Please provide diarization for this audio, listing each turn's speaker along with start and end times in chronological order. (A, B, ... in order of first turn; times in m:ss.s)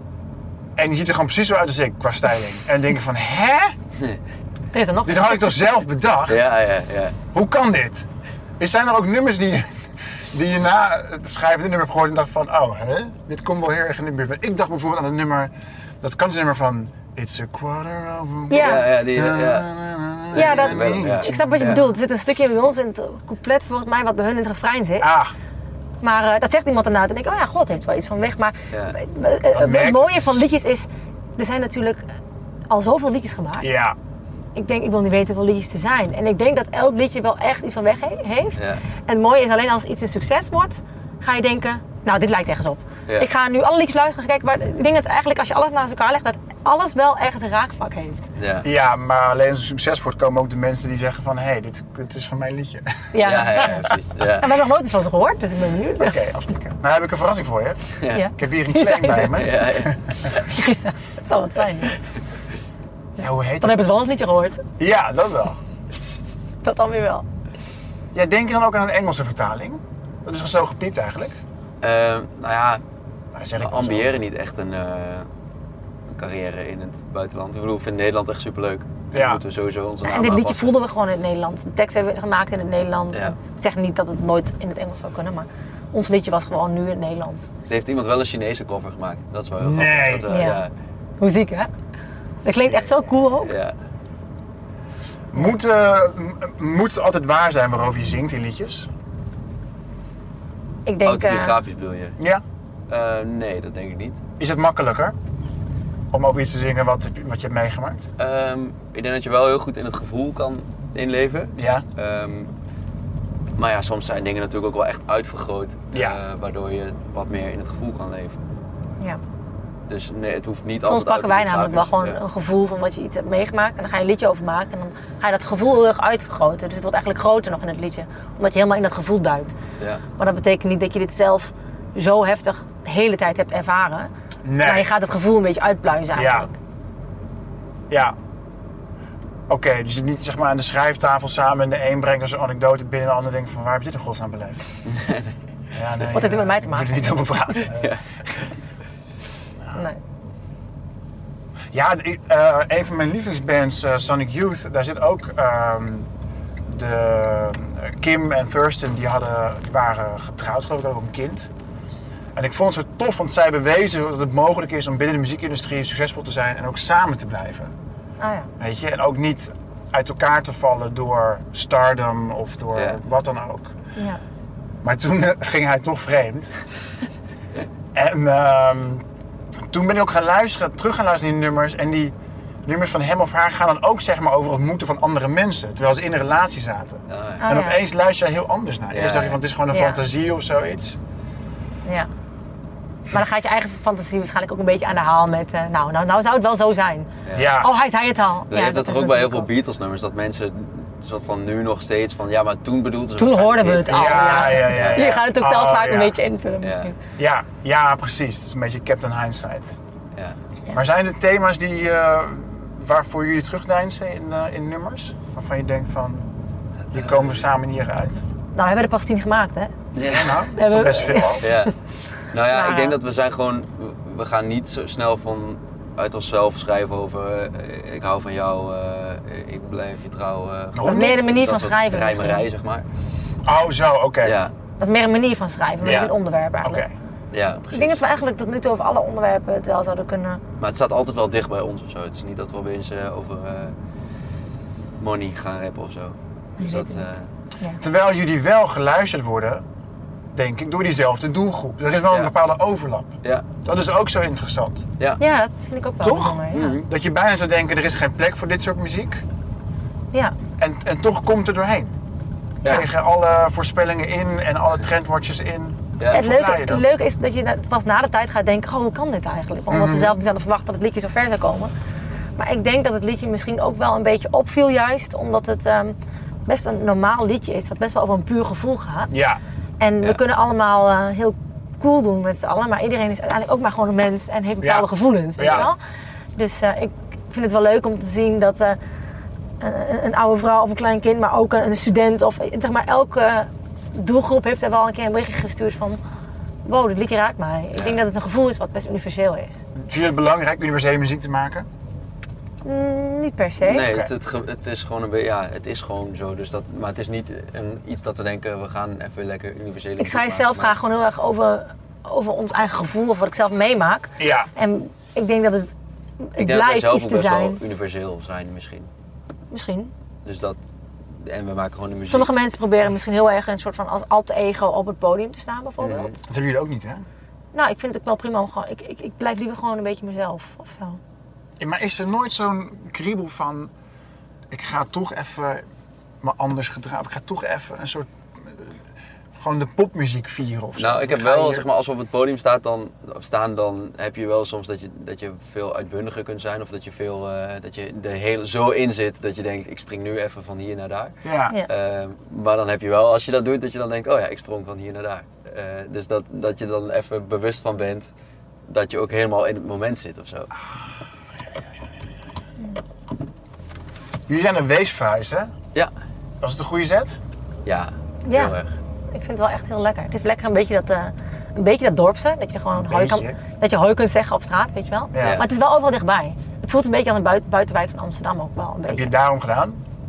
0:00.8-0:03.7 A
0:04.7-0:05.5 B
0:05.0-0:06.4 A
0:06.3-0:07.2 C
0:07.3-0:08.0 A
0:08.6-0:09.8 A
0:10.3-0:21.9 A
0:18.5-0:18.9 B
0:18.5-0:19.7 C
0:20.3-0:21.8 C
0:20.3-0:25.1 B
0:25.0-0:25.3 A
0:26.0-0:32.0 B
0:29.5-0:30.4 A
0:32.7-0:33.7 B
0:33.6-0:34.0 A
0:34.5-0:48.3 B
0:38.6-0:38.8 C
0:48.4-0:48.7 C
0:48.6-0:53.9 A
0:53.1-0:56.2 B
0:53.2-0:54.6 C
0:56.0-1:00.3 A
0:58.0-0:58.2 C
0:58.1-0:59.4 B
0:59.3-1:00.4 C
1:00.5-1:02.0 B
1:03.2-1:03.8 A
1:03.6-1:04.6 B
1:04.8-1:05.6 A
1:06.6-1:07.2 B
1:08.1-1:11.4 A
1:11.8-1:12.8 C
1:13.3-1:14.2 A
1:13.6-1:15.3 C
1:16.1-1:20.8 C
1:19.1-1:19.4 A
1:20.0-1:27.5 B
1:27.7-1:30.7 C
1:29.6-1:30.3 A
1:30.3-1:30.6 B
1:31.2-1:31.7 B
1:32.4-1:33.5 B
1:33.4-1:33.7 C
1:35.3-1:38.9 A
1:40.8-1:41.6 B
1:41.0-1:42.2 C
1:42.2-1:42.4 A
1:42.9-1:44.2 C
1:44.4-1:45.1 A
1:46.1-1:48.1 A
1:48.2-1:52.5 C
1:51.6-1:51.8 A
1:53.6-1:58.4 C
1:55.9-1:56.2 A
1:59.9-2:02.2 C
2:00.8-2:09.6 B
2:10.2-2:16.5 B
2:14.4-2:14.9 A
2:16.1-2:16.5 A
2:17.9-2:18.2 A
2:19.5-2:24.6 A
2:24.9-2:25.3 C
2:25.7-2:28.0 A
2:26.1-2:27.1 B
2:27.7-2:28.0 C
2:29.7-2:30.0 B
2:31.7-2:36.1 A
2:36.7-2:41.5 A
2:42.3-2:47.7 A
2:48.2-2:48.5 B
2:48.6-2:53.7 A
2:54.8-2:56.5 A
2:57.9-2:59.0 A
2:59.7-3:02.1 A
3:02.6-3:11.0 A
3:07.1-3:07.4 C
3:07.4-3:07.8 B
3:08.9-3:09.4 C
3:09.7-3:10.0 B
3:13.1-3:19.5 B
3:17.2-3:17.5 C
3:17.3-3:17.7 A
3:18.5-3:25.2 C
3:23.2-3:26.9 B
3:23.9-3:26.1 A
3:26.6-3:26.9 C
3:27.2-3:29.8 A
3:30.7-3:36.3 A
3:36.9-3:37.4 C
3:36.9-3:38.2 A
3:38.5-3:39.7 B
3:39.9-3:40.4 C
3:40.0-3:41.5 A
3:40.5-3:41.7 B
3:41.4-3:41.7 C
3:42.3-3:52.8 C
3:42.5-3:43.0 B
3:50.7-3:51.2 A
3:50.8-3:52.4 B
3:53.4-3:54.4 A
3:54.2-3:54.5 C
3:54.8-3:56.8 B
3:55.8-3:56.1 A
3:56.6-3:56.9 A
3:57.3-3:58.1 C
3:57.7-4:00.4 B
4:00.6-4:03.7 C
4:05.0-4:07.3 C
4:06.6-4:07.8 B
4:07.8-4:09.6 A
4:10.3-4:14.9 A
4:13.2-4:13.5 C
4:15.2-4:16.8 B
4:16.0-4:19.2 A
4:16.5-4:16.8 C
4:20.6-4:21.9 A
4:22.6-4:26.9 A
4:26.0-4:26.2 C
4:26.1-4:31.7 B
4:29.7-4:30.2 A
4:32.4-4:39.1 B
4:39.1-4:39.4 A
4:39.8-4:45.8 B
4:44.6-4:45.7 A
4:46.4-4:48.8 B
4:49.6-4:56.0 B
4:56.6-4:59.6 B
4:57.7-4:58.0 C
4:59.7-5:01.7 A
5:02.6-5:03.9 B
5:03.6-5:10.7 C
5:03.8-5:04.1 A
5:10.0-5:17.6 B
5:14.2-5:14.5 A
5:16.4-5:18.9 C
5:19.5-5:19.9 B
5:20.2-5:20.6 C
5:21.2-5:22.3 C
5:22.1-5:26.2 B
5:25.8-5:26.2 C
5:26.3-5:27.0 A
5:27.5-5:31.0 B
5:31.6-5:33.7 A
5:34.5-5:35.6 A
5:36.2-5:38.8 A
5:39.4-5:41.6 A
5:40.8-5:58.1 C
5:51.2-5:51.6 A
5:58.7-6:00.5 C
6:04.3-6:05.5 A
6:06.4-6:07.2 A
6:07.6-6:08.7 C
6:08.2-6:08.5 B
6:09.1-6:19.1 B
6:12.7-6:13.4 A
6:15.1-6:15.4 A
6:15.2-6:15.4 C
6:18.8-6:19.8 A